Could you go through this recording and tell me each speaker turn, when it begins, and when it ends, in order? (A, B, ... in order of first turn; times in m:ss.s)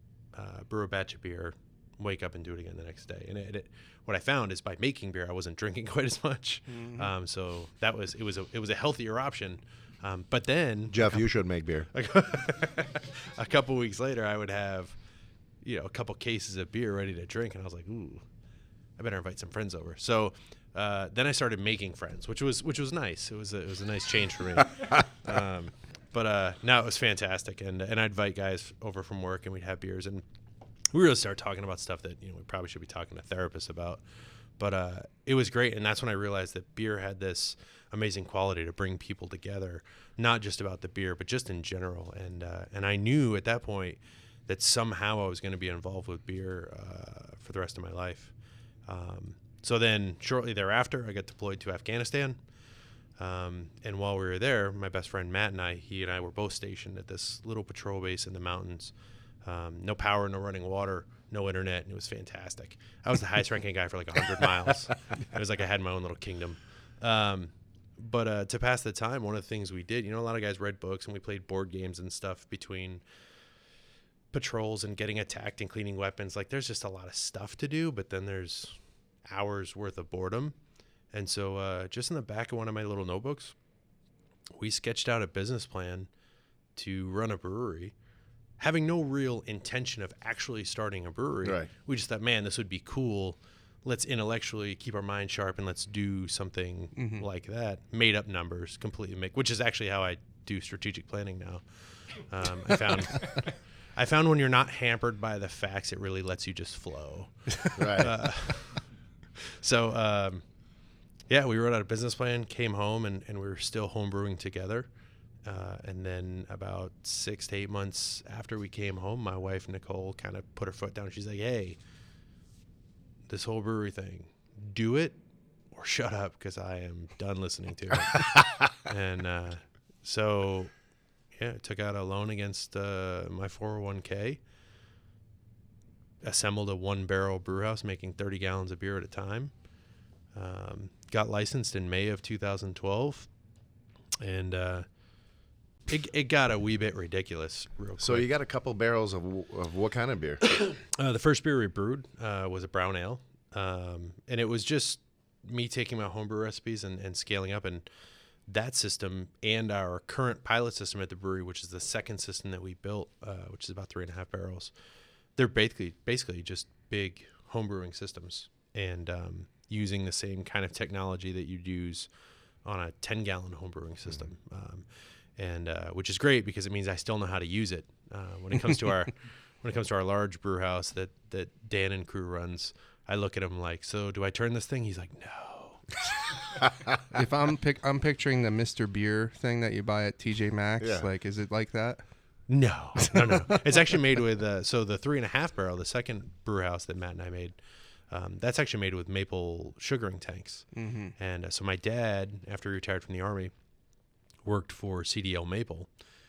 0:00.3-0:15.0 A
0:06.7-0:07.1 B
0:10.9-0:11.9 C
0:15.6-0:18.2 A
0:19.0-0:30.2 A
0:30.9-0:34.0 A
0:34.6-0:52.4 A
0:53.1-1:13.0 A
1:14.3-1:20.6 A
1:21.1-1:23.6 A
1:24.5-1:26.1 A
1:26.7-1:27.9 A
1:28.6-1:48.9 A
1:31.4-1:31.7 C
1:37.0-1:37.2 B
1:47.8-1:48.2 C
1:49.6-1:50.4 A
1:51.3-1:54.9 A
1:55.4-2:01.8 A
2:03.3-2:05.2 A
2:05.7-2:14.4 A
2:16.2-2:19.6 A
2:20.3-2:23.3 A
2:24.2-2:24.8 A
2:25.9-2:28.3 A
2:28.0-2:30.6 C
2:30.5-2:37.9 A
2:38.4-2:44.7 A
2:45.3-3:06.4 A
3:07.1-3:12.0 B
3:10.8-3:11.1 C
3:12.5-3:23.5 A
3:13.2-3:13.5 B
3:20.7-3:21.1 B
3:24.4-3:25.9 A